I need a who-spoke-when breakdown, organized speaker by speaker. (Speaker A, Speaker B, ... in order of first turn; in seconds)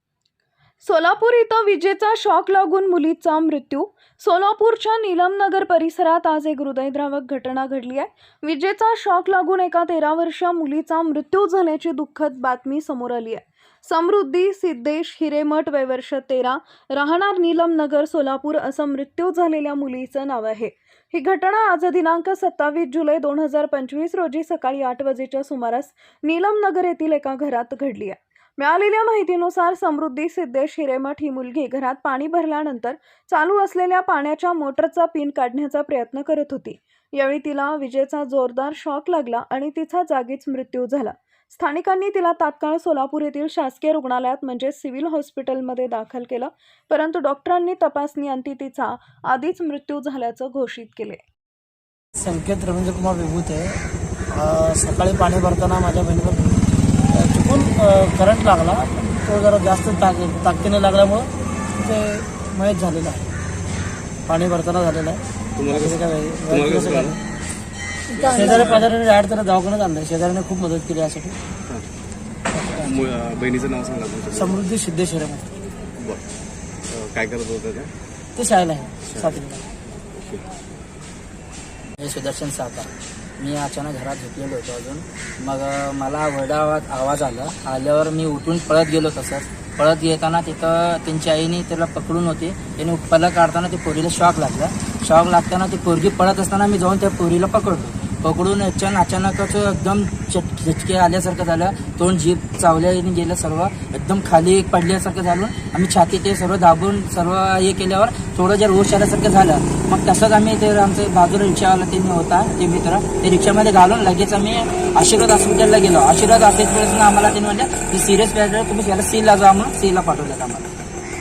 Speaker A: 0.8-51.2
Speaker B: 52.2-56.5, 57.1-63.4, 64.3-67.2, 68.2-71.4, 72.5-72.9, 74.3-75.6, 78.4-79.6
Speaker C: 65.6-67.2, 68.2-68.9, 72.8-74.6, 76.9-77.9, 79.1-79.4, 80.2-80.5
Speaker D: 82.0-120.7